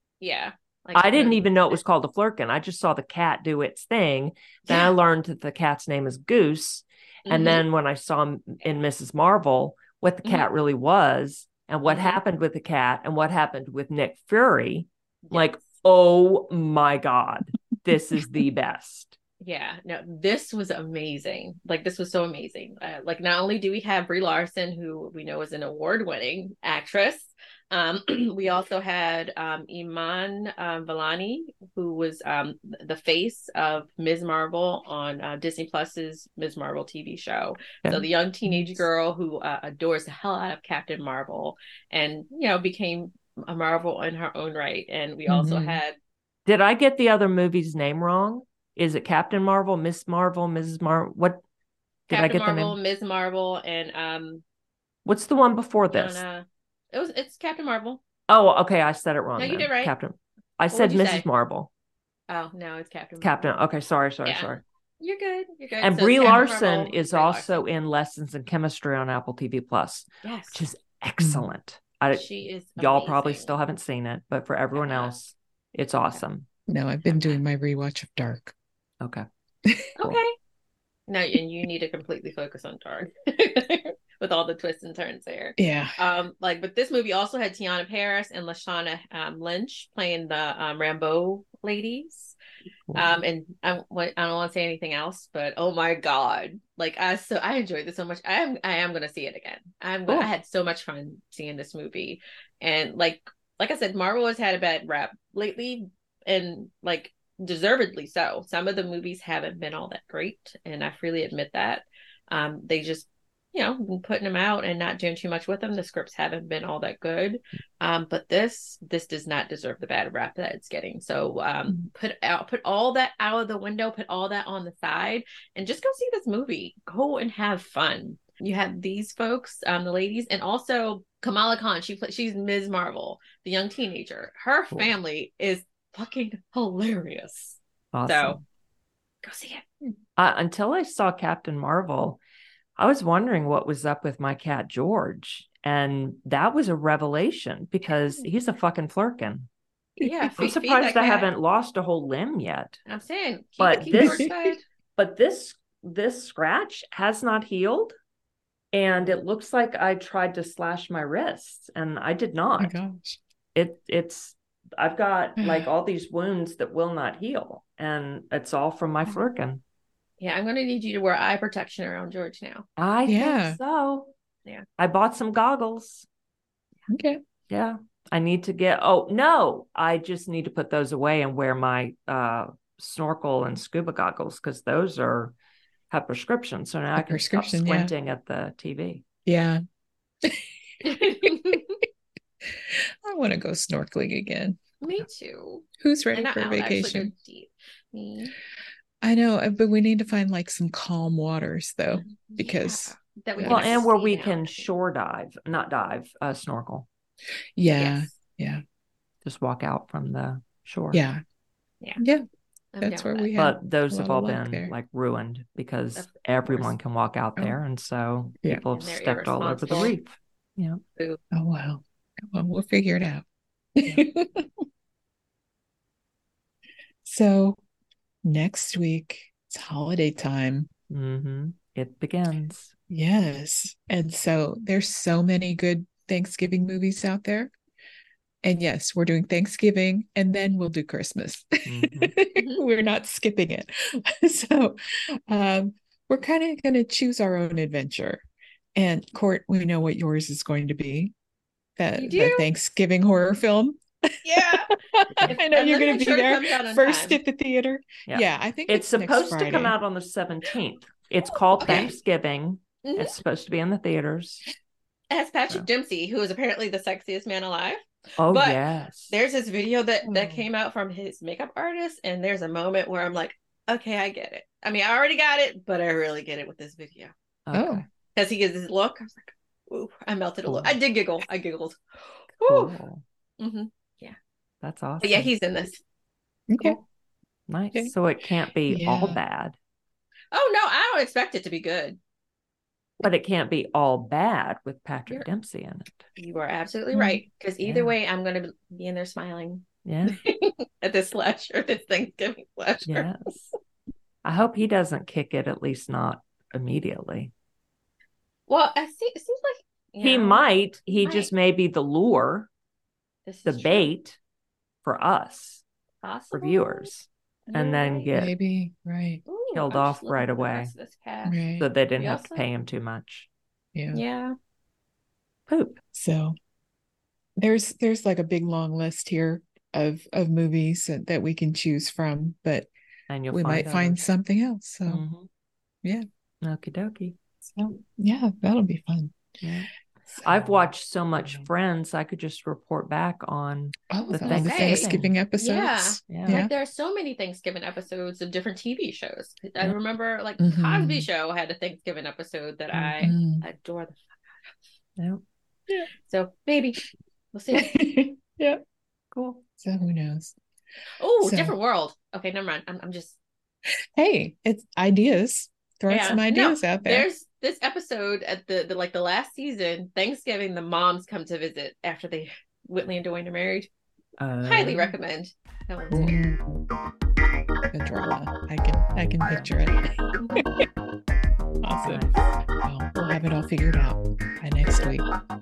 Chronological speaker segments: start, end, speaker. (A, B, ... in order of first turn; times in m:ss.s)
0:00.2-0:01.4 A
0:01.0-0:19.2 B
0:07.3-0:07.6 A
0:11.9-0:12.2 A
0:15.3-0:15.6 A
0:19.4-0:46.0 A
0:45.3-0:45.8 C
0:46.5-0:51.4 B
0:52.1-0:52.8 B
0:52.1-0:54.4 A
0:55.0-0:56.2 B
0:55.9-0:58.0 A
0:58.3-1:01.7 B
0:59.4-0:59.9 A
1:00.7-1:01.2 A
1:02.3-1:03.5 A
1:03.2-1:04.6 B
1:04.2-1:07.5 A
1:05.8-1:16.5 B
1:10.2-1:10.6 A
1:11.2-1:11.5 C
1:12.1-1:13.5 A
1:14.7-1:15.1 A
1:16.7-1:18.6 C
1:19.6-1:19.9 C
1:20.0-1:20.4 A
1:21.1-1:32.4 A
1:25.6-1:26.0 C
1:32.9-1:33.2 B
1:32.9-2:18.4 A
2:17.9-2:18.4 B
2:19.2-2:19.7 A
2:20.2-2:22.2 B
2:22.8-2:29.5 B
2:30.0-2:31.3 A
2:30.4-2:32.8 B
2:32.9-2:34.6 A
2:33.6-2:34.3 B
2:33.9-2:34.3 C
2:35.0-2:37.9 B
2:38.7-2:42.8 B
2:42.6-2:43.2 C
2:43.6-2:49.6 B
2:45.4-2:45.7 C
2:50.2-2:52.6 A
2:52.8-2:54.1 B
2:53.0-2:53.6 C
2:54.8-2:56.1 B
2:56.9-2:57.2 C
2:57.5-3:05.3 B
3:05.9-3:09.0 B
3:07.0-3:07.9 C
3:09.3-3:09.6 C
3:10.2-3:11.6 C
3:10.8-3:11.8 A
3:12.4-3:15.0 C
3:14.8-3:18.4 A
3:15.8-3:17.1 C
3:19.0-3:23.9 C
3:21.9-3:24.7 A
3:23.4-3:26.9 B
3:27.6-3:28.6 C
3:27.7-3:28.1 A
3:29.2-3:31.0 B
3:30.9-3:31.2 C
3:32.0-3:32.2 C
3:32.7-3:33.3 A
3:32.8-3:34.7 C
3:33.4-3:40.8 B
3:36.0-3:36.8 A
3:38.7-3:40.0 A
3:41.3-3:43.2 C
3:43.8-3:44.6 C
3:47.0-3:47.6 C
3:48.2-3:50.7 C
3:50.9-3:52.7 B
3:52.9-3:57.5 C
3:58.4-4:04.8 C
4:01.7-4:02.1 B
4:02.4-4:02.6 A
4:05.3-4:11.1 C
4:11.8-4:13.8 C
4:11.9-4:12.5 A
4:14.2-4:14.7 A
4:14.4-4:19.8 C
4:15.3-4:17.2 A
4:18.1-4:24.4 B
4:21.6-4:21.9 A
4:21.6-4:21.9 C
4:22.8-4:23.2 A
4:25.1-4:28.6 A
4:28.2-4:29.1 B
4:29.1-4:37.1 A
4:30.0-4:30.4 C
4:37.5-4:37.8 B
4:37.5-4:37.8 C
4:38.1-4:42.8 A
4:40.5-4:40.8 B
4:42.5-4:43.0 B
4:43.4-4:44.2 A
4:44.6-4:45.3 B
4:45.0-4:45.8 A
4:46.5-4:46.8 C
4:47.5-4:49.6 B
4:48.7-4:49.2 C
4:50.3-4:52.0 A
4:53.0-4:56.0 B
4:56.2-5:03.1 A
4:56.9-4:57.2 C
4:57.6-4:58.0 B
4:59.8-5:00.2 B
5:02.9-5:03.5 B
5:04.2-5:07.3 B
5:08.5-5:11.3 A
5:10.0-5:12.5 B
5:13.3-5:13.8 A
5:13.4-5:14.2 B
5:14.8-5:15.6 B
5:16.0-5:16.9 A
5:16.3-5:18.3 B
5:17.5-5:18.1 A
5:18.1-5:19.2 C
5:19.3-5:21.4 A
5:19.5-5:20.7 B
5:21.2-5:21.7 C
5:21.6-5:23.3 B
5:22.0-5:22.5 A
5:23.8-5:24.0 C
5:23.9-5:24.4 A
5:25.5-5:25.8 B
5:25.9-5:26.4 C
5:27.4-5:32.7 C
5:33.1-5:34.0 B
5:33.3-5:35.0 C
5:34.9-5:35.3 B
5:36.4-5:37.2 B
5:37.4-5:39.2 C
5:39.4-5:39.7 B
5:40.1-5:41.5 C
5:40.2-5:45.1 B
5:43.9-5:46.5 C
5:44.1-5:54.6 A
5:46.1-5:46.4 B
5:50.4-5:51.1 C
5:53.0-5:53.4 C
5:56.0-5:56.8 A
5:57.3-5:57.8 A
5:57.5-5:58.6 C
5:59.1-5:59.4 B
5:59.6-6:00.4 C
6:01.0-6:03.2 A
6:01.2-6:01.6 C
6:04.0-6:07.1 C
6:05.9-6:13.7 A
6:14.2-6:15.0 B
6:14.4-6:16.2 A
6:15.9-6:16.6 C
6:17.7-6:20.6 C
6:19.2-6:19.5 B
6:21.6-6:22.1 C
6:21.8-6:22.3 B
6:22.6-6:25.1 C